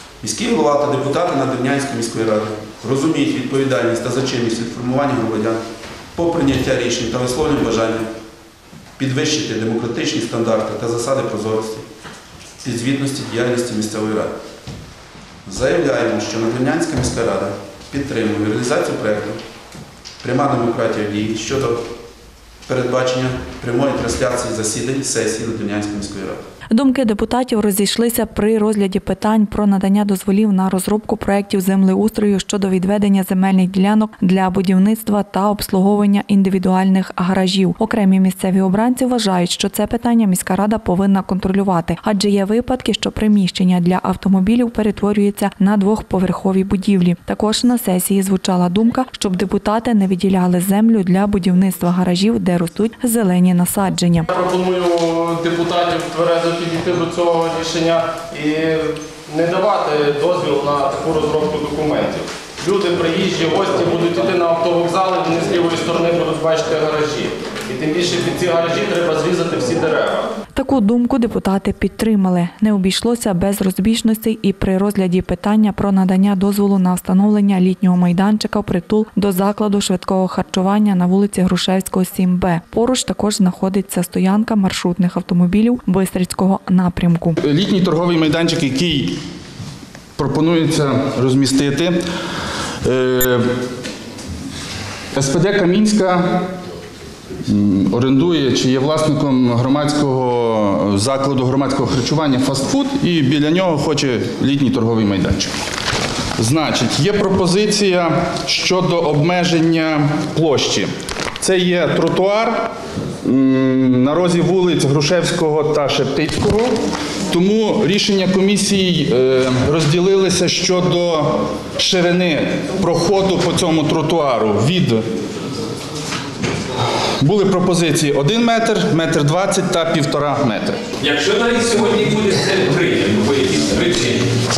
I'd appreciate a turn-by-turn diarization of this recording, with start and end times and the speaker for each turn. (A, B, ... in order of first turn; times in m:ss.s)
0:00.2-0:05.6 A
0:06.1-0:08.1 A
0:09.0-0:11.8 A
0:12.6-0:14.3 A
0:15.4-0:19.4 A
0:20.2-0:21.8 A
0:22.6-0:26.4 A
0:26.7-0:54.3 B
0:54.3-1:10.2 C
1:10.6-1:27.4 B
1:27.4-1:29.2 D
1:30.2-1:32.0 D
1:32.8-1:33.4 D
1:35.1-1:36.4 D
1:37.4-1:45.5 D
1:46.4-1:52.7 D
1:53.2-1:56.7 D
1:57.3-2:05.0 D
2:07.2-2:10.8 D
2:11.0-2:14.3 E